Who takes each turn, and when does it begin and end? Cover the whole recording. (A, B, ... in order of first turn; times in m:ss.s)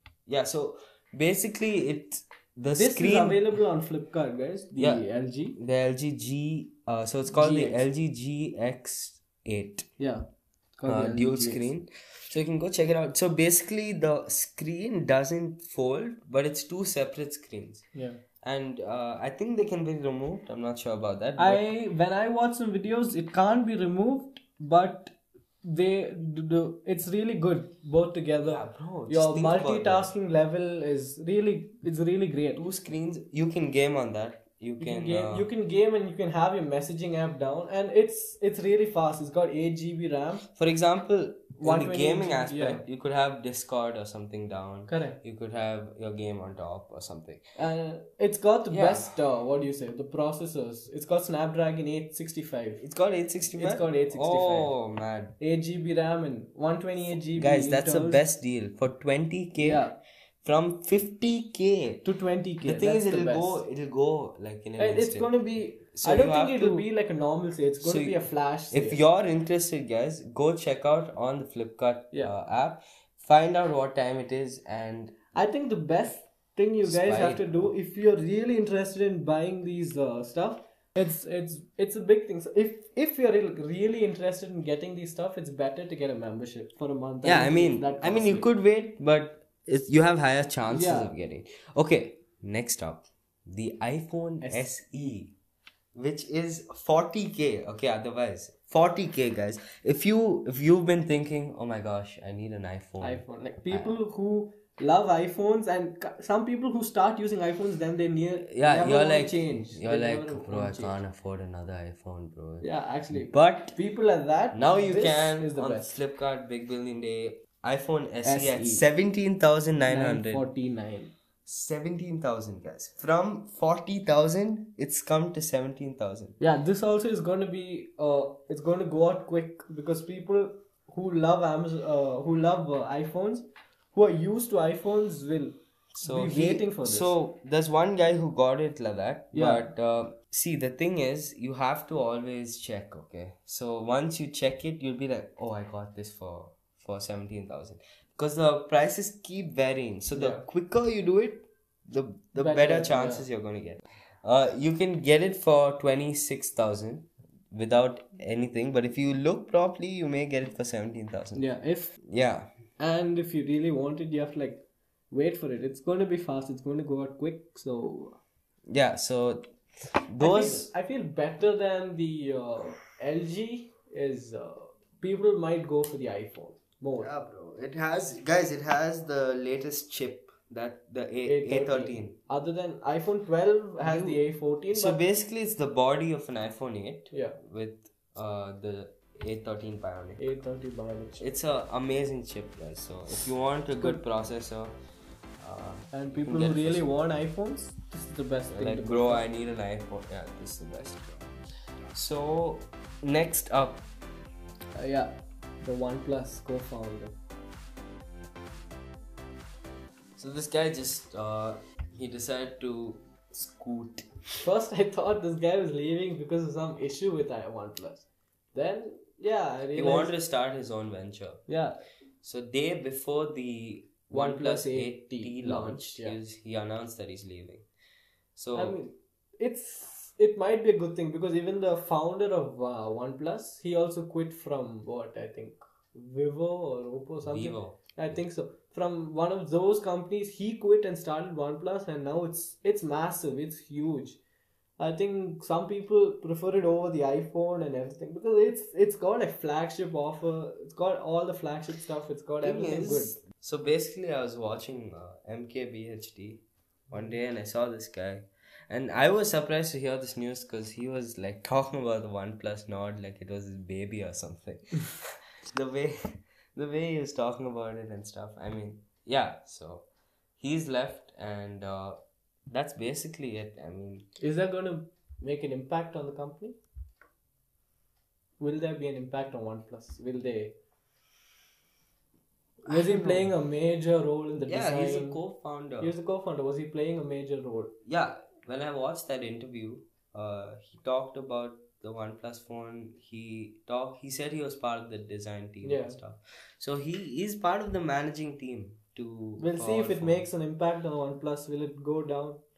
0:00.3-0:03.6 A
0:02.7-0:05.6 B
0:04.8-0:09.9 A
0:07.3-0:07.8 B
0:10.0-0:10.3 B
0:10.8-0:11.7 B
0:10.8-0:17.8 A
0:17.9-0:18.2 B
0:18.4-0:21.7 A
0:21.4-0:32.6 B
0:28.4-0:30.1 A
0:32.6-0:35.5 A
0:34.8-0:40.4 B
0:40.5-0:47.5 A
0:41.6-0:42.8 B
0:44.9-0:45.2 B
0:47.6-0:52.8 B
0:48.7-0:49.1 A
0:52.8-0:55.4 A
0:53.6-0:54.7 B
0:55.4-0:58.2 B
0:57.3-0:59.8 A
0:59.6-1:00.0 B
1:00.4-1:02.0 A
1:02.0-1:03.6 B
1:02.6-1:05.4 A
1:04.8-1:09.0 B
1:05.9-1:06.8 A
1:07.8-1:15.2 A
1:15.3-1:28.5 B
1:16.8-1:17.7 A
1:27.2-1:35.3 A
1:30.7-1:31.1 B
1:34.4-1:35.1 B
1:35.9-1:43.9 A
1:43.0-1:51.0 B
1:48.5-1:53.8 A
1:52.6-1:56.0 B
1:54.5-2:00.4 A
1:58.2-1:58.8 B
1:59.9-2:01.1 B
2:01.4-2:06.4 A
2:06.4-2:17.1 B
2:16.0-2:41.4 A
2:19.3-2:19.7 B
2:30.1-2:30.4 B
2:32.4-2:33.2 B
2:41.3-2:42.0 B
2:42.0-2:42.5 A
2:42.8-2:48.2 B
2:48.7-2:49.5 A
2:50.1-2:50.7 A
2:50.2-2:57.1 B
2:57.0-3:02.2 A
3:01.2-3:05.0 B
3:03.8-3:04.2 A
3:04.7-3:10.3 A
3:07.1-3:07.4 B
3:10.2-3:11.2 B
3:11.2-3:14.7 A
3:15.4-3:16.9 A
3:15.9-3:19.2 B
3:18.5-3:21.1 A
3:21.9-3:23.8 A
3:24.7-3:27.2 B
3:30.2-3:34.1 A
3:34.4-3:40.1 B
3:39.7-3:41.5 A
3:41.5-3:41.8 B
3:42.2-3:47.7 A
3:44.1-3:46.2 B
3:48.4-3:48.8 A
3:48.5-4:04.2 B
3:57.2-3:57.8 A
4:04.8-4:13.2 B
4:12.4-4:29.9 A
4:30.4-4:34.1 A
4:34.2-4:36.6 B
4:38.4-4:40.6 B
4:42.6-4:43.3 A
4:42.6-4:45.2 B
4:44.5-4:45.9 A
4:45.8-4:47.7 B
4:47.8-5:00.3 A
4:55.6-4:56.0 B
4:59.4-5:02.4 B